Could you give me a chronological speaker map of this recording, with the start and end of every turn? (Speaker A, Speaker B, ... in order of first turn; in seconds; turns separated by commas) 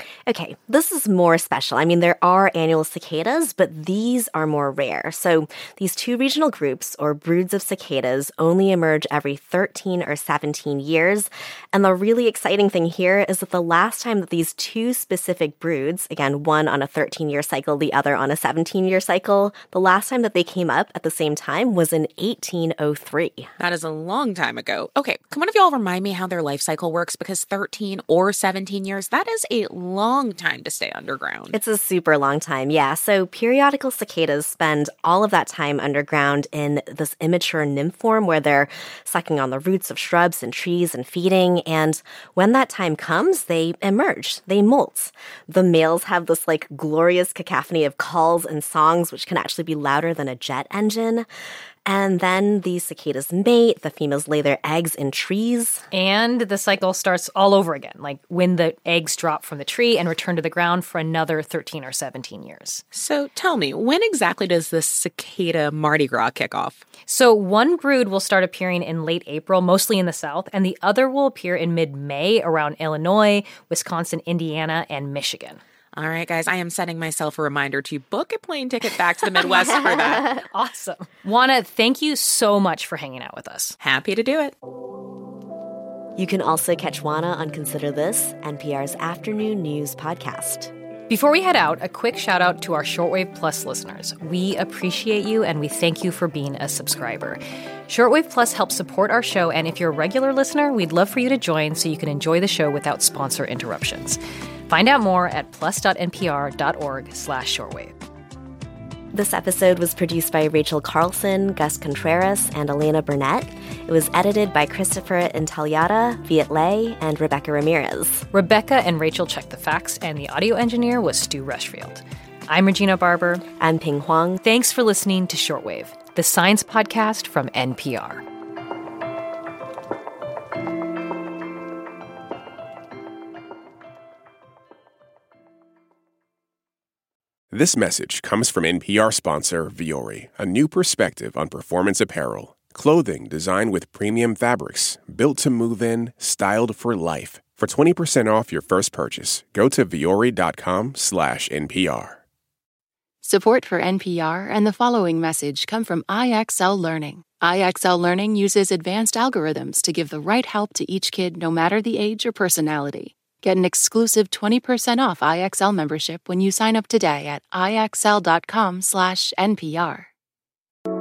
Speaker A: 0.3-23.5, Speaker B: 23.6-31.6, Speaker A: 31.5-51.3, Speaker A: 51.9-55.9, Speaker C: 55.9-62.8, Speaker B: 62.9-66.8, Speaker C: 67.1-75.6, Speaker B: 76.0-80.3, Speaker C: 80.2-83.8, Speaker B: 83.8-84.5, Speaker A: 86.2-90.7, Speaker C: 91.1-107.9, Speaker A: 109.1-118.3, Speaker C: 118.3-123.4, Speaker A: 123.6-124.4, Speaker C: 124.4-128.2, Speaker D: 137.5-152.2, Speaker E: 153.2-170.1